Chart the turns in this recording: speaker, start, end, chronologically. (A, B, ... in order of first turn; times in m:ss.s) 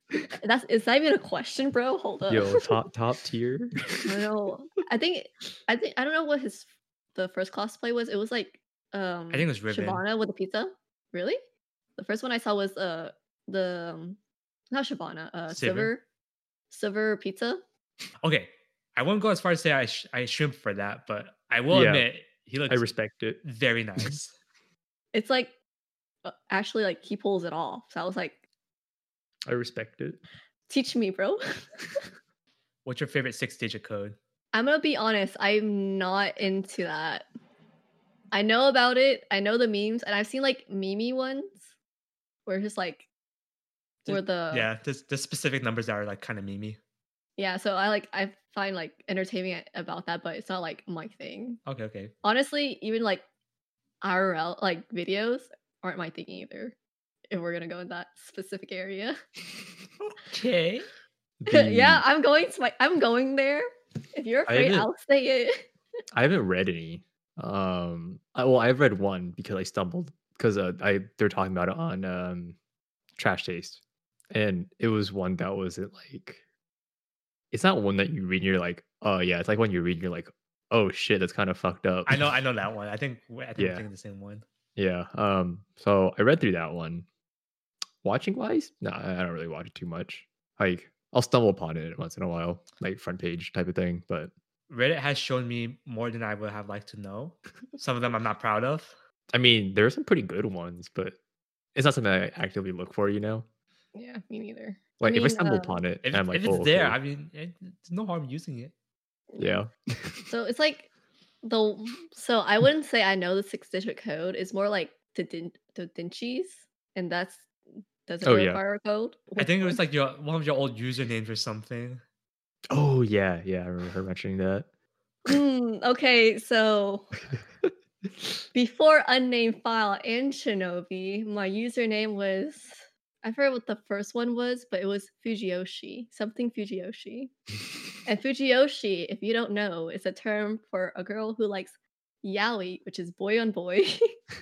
0:00.4-0:02.7 A
0:02.3-0:04.2 B
0:04.0-0:11.4 A
0:09.3-0:10.0 C
0:12.0-0:14.2 A
0:14.7-0:16.0 A
0:15.5-0:15.9 C
0:16.7-0:17.6 A
0:18.2-0:22.8 C
0:21.7-0:22.1 B
0:22.7-0:23.4 B
0:23.4-0:24.4 C
0:25.1-0:25.5 A
0:26.2-0:28.4 A
0:29.5-0:30.2 B
0:30.7-0:31.4 A
0:32.8-0:34.2 C
0:34.5-0:37.3 A
0:38.3-0:41.7 A
0:42.5-0:43.1 A
0:44.1-0:46.8 C
0:44.1-0:44.7 A
0:47.4-0:51.6 A
0:51.7-0:52.1 C
0:52.2-0:53.2 A
0:54.0-0:56.8 A
0:57.3-0:59.2 A
1:00.3-1:00.9 C
1:01.4-1:02.0 B
1:01.5-1:05.6 A
1:04.5-1:04.9 B
1:06.1-1:12.6 B
1:13.2-1:13.8 B
1:14.3-1:16.4 B
1:17.5-1:22.3 B
1:22.1-1:24.4 C
1:23.6-1:23.9 B
1:24.8-1:27.1 B
1:28.0-1:34.3 B
1:34.7-1:38.9 C
1:39.3-1:41.2 B
1:41.8-1:43.5 B
1:44.0-1:45.8 A
1:45.0-1:47.0 B
1:46.0-1:48.7 C
1:49.4-1:50.3 B
1:50.3-1:50.9 A
1:51.4-1:57.5 A
1:58.1-1:59.8 A
1:58.2-1:58.6 B
1:59.4-2:02.0 C
2:02.7-2:04.7 B
2:05.3-2:07.2 A
2:08.5-2:17.3 A
2:18.0-2:24.0 A